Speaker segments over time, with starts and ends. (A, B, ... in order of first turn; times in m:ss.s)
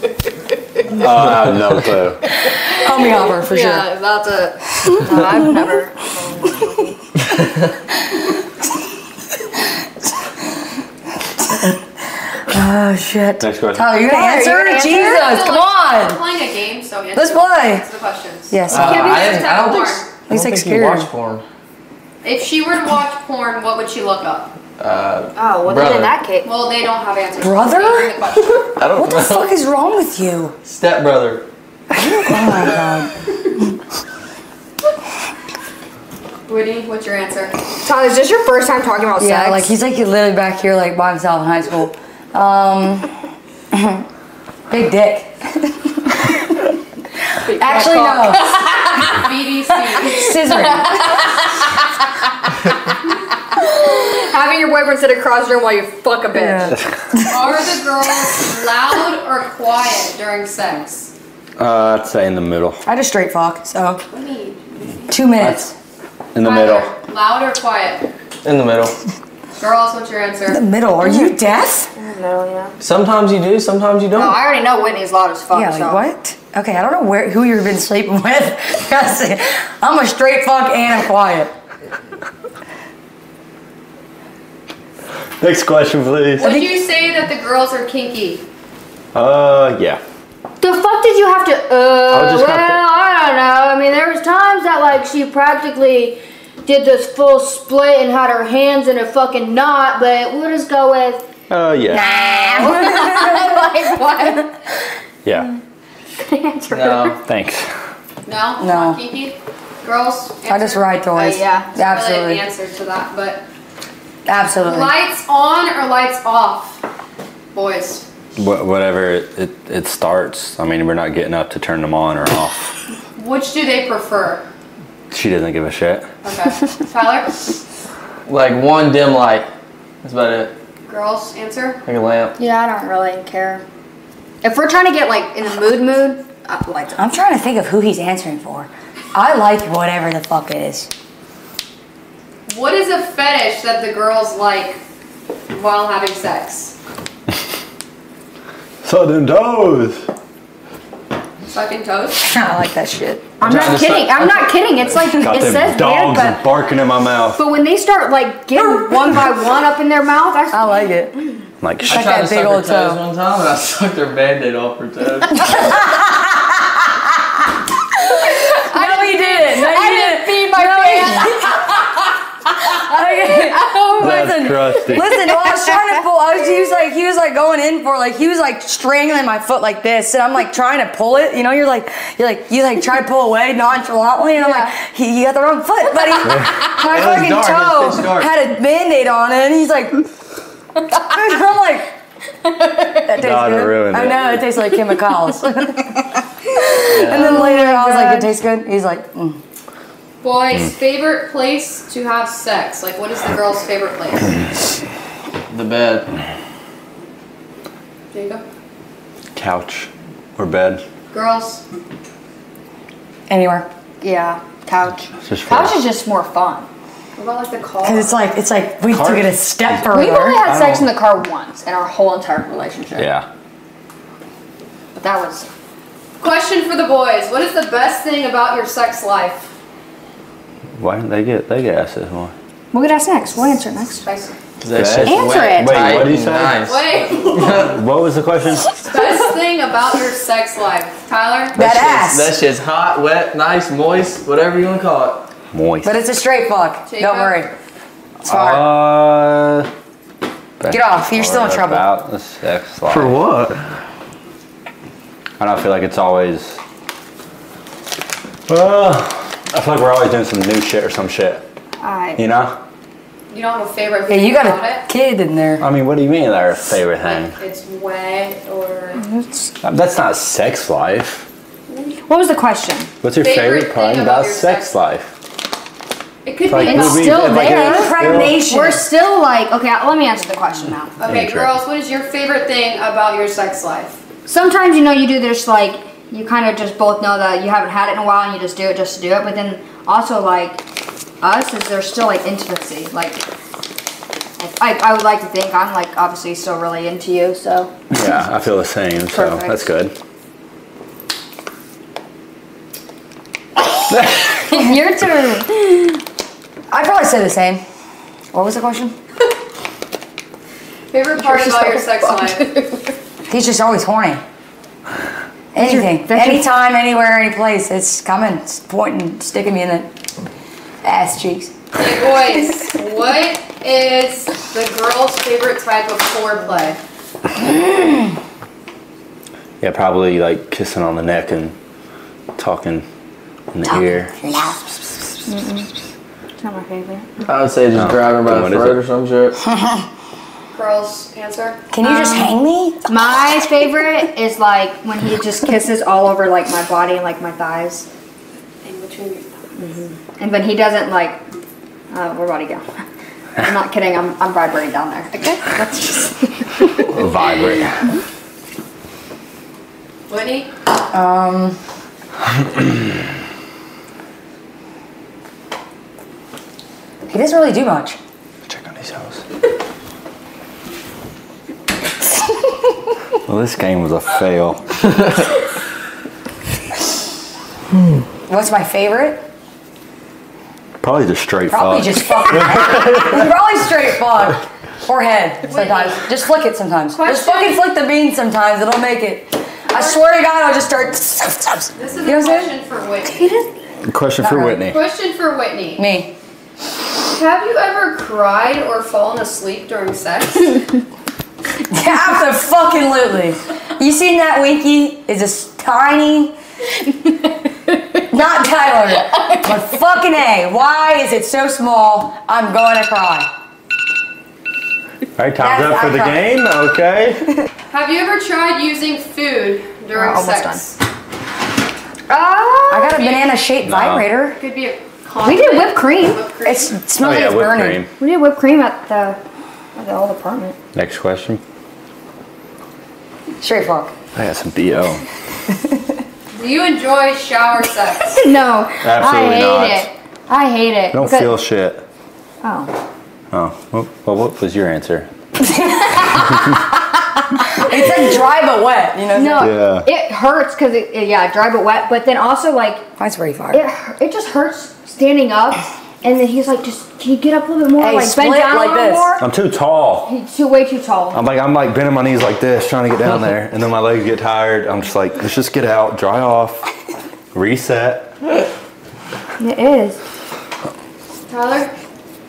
0:01.0-0:02.2 A
0:02.6-0:07.0 B
0:02.8-0:03.9 C
0:11.5-0:11.8 C
0:12.3-0:16.2 C
0:13.4-0:13.9 A
0:13.9-0:15.4 B
0:14.8-0:20.1 D
0:17.1-0:17.8 C
0:18.5-0:19.4 C
0:18.7-0:21.4 E
0:18.7-0:20.0 B
0:20.3-0:21.1 C
0:22.2-0:24.6 D
0:24.8-0:26.2 E
0:25.4-0:26.5 B
0:26.4-0:28.7 D
0:27.4-0:30.5 C
0:28.8-0:29.5 E
0:30.6-0:31.4 E
0:31.9-0:33.1 C
0:36.5-0:37.6 D
0:37.8-0:39.7 B
0:39.2-0:43.1 C
0:43.7-0:44.0 C
0:44.7-0:46.5 C
0:47.3-0:48.6 C
0:47.5-0:49.2 B
0:49.0-0:50.4 D
0:49.9-0:51.7 B
0:50.1-0:50.9 C
0:53.5-0:56.8 B
0:56.4-0:57.4 C
0:57.3-1:01.1 D
1:01.6-1:02.8 A
1:02.9-1:04.0 C
1:04.1-1:05.1 D
1:05.1-1:05.7 C
1:05.4-1:05.7 A
1:06.4-1:06.9 A
1:06.4-1:08.0 D
1:08.4-1:08.9 E
1:09.6-1:10.6 D
1:10.5-1:11.9 C
1:11.9-1:12.8 B
1:12.8-1:14.4 E
1:14.1-1:16.0 B
1:15.5-1:21.5 C
1:25.4-1:26.6 A
1:26.4-1:28.4 D
1:26.4-1:26.7 C
1:29.1-1:30.0 A
1:30.6-1:41.2 B
1:32.1-1:32.8 A
1:41.5-1:42.2 A
1:41.9-1:43.5 C
1:42.2-1:44.6 B
1:45.2-1:45.5 A
1:46.2-1:47.2 B
1:46.7-1:47.2 E
1:47.2-1:47.7 A
1:48.2-1:53.4 D
1:48.6-1:49.0 C
1:50.5-1:52.4 C
1:51.2-1:51.7 B
1:54.2-1:54.9 C
1:54.6-1:56.8 D
1:57.5-1:58.0 D
1:58.4-2:02.7 A
2:03.2-2:04.4 D
2:05.1-2:06.1 A
2:06.2-2:07.5 D
2:08.2-2:09.5 E
2:10.0-2:10.5 E
2:10.9-2:11.8 D
2:11.9-2:12.4 E
2:12.4-2:13.6 B
2:14.4-2:17.0 B
2:17.0-2:20.9 C
2:22.5-2:24.8 D
2:25.5-2:26.8 D
2:28.8-2:30.0 A
2:31.4-2:32.2 D
2:32.2-2:33.4 C
2:33.4-2:36.5 B
2:33.4-2:34.5 E
2:33.5-2:34.0 A
2:35.1-2:37.4 A
2:37.4-2:41.3 B
2:40.5-2:41.2 C
2:41.6-2:42.1 A
2:41.8-2:45.8 E
2:41.9-2:43.0 C
2:45.5-2:46.0 C
2:48.2-2:51.5 C
2:48.5-2:51.8 B
2:52.6-2:54.2 B
2:52.8-3:10.0 C
2:54.0-2:55.2 A
2:55.0-2:55.6 B
3:04.4-3:04.7 B
3:06.8-3:08.3 E
3:11.0-3:11.9 C
3:12.4-3:13.1 B
3:13.0-3:15.8 C
3:13.2-3:14.4 A
3:16.5-3:19.4 C
3:16.7-3:18.3 B
3:16.9-3:17.4 E
3:20.2-3:24.5 D
3:25.5-3:26.1 E
3:28.1-3:28.4 D
3:29.3-3:30.8 A
3:31.1-3:31.6 D
3:33.3-3:33.7 C
3:34.0-3:36.7 B
3:35.2-3:35.8 A
3:37.2-3:38.2 D
3:37.8-3:40.5 C
3:38.9-3:39.7 A
3:39.9-3:43.1 B
3:40.4-3:40.8 A
3:43.0-3:43.3 A
3:45.0-3:45.5 B
3:46.2-3:49.5 D
3:50.8-3:52.3 A
3:52.7-3:54.0 B
3:54.0-3:54.3 D
3:54.6-3:57.8 E
3:54.7-3:56.6 A
3:55.1-3:56.1 B
3:56.6-3:57.6 D
3:57.4-3:58.8 A
3:58.8-4:01.6 D
4:01.5-4:02.3 C
4:01.6-4:05.3 E
4:05.5-4:05.9 A
4:05.8-4:07.5 C
4:06.9-4:07.5 D
4:08.2-4:09.7 A
4:08.3-4:08.7 C
4:10.6-4:13.2 A
4:10.7-4:11.8 C
4:12.9-4:13.6 E
4:15.4-4:16.6 A
4:18.5-4:21.4 A
4:21.8-4:22.2 B
4:22.2-4:22.6 A
4:23.3-4:24.8 D
4:24.1-4:25.6 C
4:25.6-4:27.4 A
4:27.0-4:29.0 D
4:29.0-4:29.5 B
4:29.6-4:31.3 A
4:32.0-4:32.9 B
4:33.0-4:35.1 A
4:33.2-4:34.7 D
4:36.2-4:37.4 D
4:36.4-4:38.4 A
4:36.6-4:41.0 B
4:37.1-4:38.8 C
4:41.0-4:44.0 D
4:41.0-4:41.5 A
4:44.3-4:50.6 B
4:51.2-4:53.2 B
4:54.4-4:57.7 B
4:57.9-5:00.0 A
4:59.1-4:59.7 B
5:04.4-5:06.0 B
5:06.7-5:07.6 C
5:08.3-5:09.0 C
5:10.9-5:12.5 D
5:11.4-5:12.8 B
5:13.3-5:14.2 C
5:15.5-5:19.9 C
5:15.6-5:16.5 B
5:20.8-5:21.5 C
5:21.8-5:26.8 D
5:29.6-5:31.6 A
5:32.4-5:32.8 A
5:33.5-5:34.2 A
5:33.7-5:34.6 C
5:35.3-5:35.7 B
5:36.4-5:37.2 B
5:37.2-5:39.4 E
5:37.7-5:38.8 A
5:39.4-5:39.9 C
5:40.5-5:41.6 D
5:41.7-5:43.1 C
5:41.8-5:47.9 B
5:48.6-5:49.3 D
5:49.6-5:51.2 B
5:51.9-5:52.7 B
5:53.4-5:57.1 B
5:56.9-5:58.0 A
6:00.1-6:00.5 D
6:00.9-6:01.6 C
6:07.1-6:08.0 C
6:08.5-6:09.2 A
6:13.2-6:14.6 A
6:18.3-6:19.2 C
6:20.8-6:23.3 A
6:21.5-6:32.5 C
6:25.5-6:25.9 D
6:27.0-6:27.5 D
6:29.7-6:30.0 D
6:31.8-6:33.4 D
6:33.8-6:34.8 A
6:34.2-6:34.6 C
6:34.6-6:35.8 D
6:35.8-6:36.1 C
6:37.1-6:40.8 D
6:41.7-6:46.3 C
6:48.1-6:53.3 C
6:55.2-6:57.2 A
6:55.4-6:56.2 C
6:57.7-7:00.8 D
6:59.9-7:00.6 B
7:02.1-7:03.0 B
7:02.7-7:04.4 C
7:02.9-7:03.3 D
7:03.6-7:04.1 A
7:04.4-7:06.8 D
7:05.2-7:06.2 B
7:06.4-7:07.8 C
7:07.0-7:07.9 A
7:08.0-7:09.2 B
7:09.8-7:10.6 B
7:10.7-7:11.4 A
7:13.4-7:13.9 C
7:14.1-7:15.0 A
7:16.3-7:18.2 D
7:18.2-7:21.3 B
7:18.8-7:19.9 A
7:20.9-7:21.8 A
7:22.4-7:22.7 B
7:23.3-7:25.1 A
7:27.5-7:29.5 C
7:29.1-7:32.8 B
7:29.4-7:29.9 A
7:33.0-7:33.6 C
7:33.5-7:39.2 B
7:37.8-7:39.2 C
7:39.2-7:40.1 A
7:40.0-7:41.2 B
7:41.1-7:46.7 A
7:47.3-7:48.1 A
7:49.4-7:50.0 B
7:51.3-7:51.7 D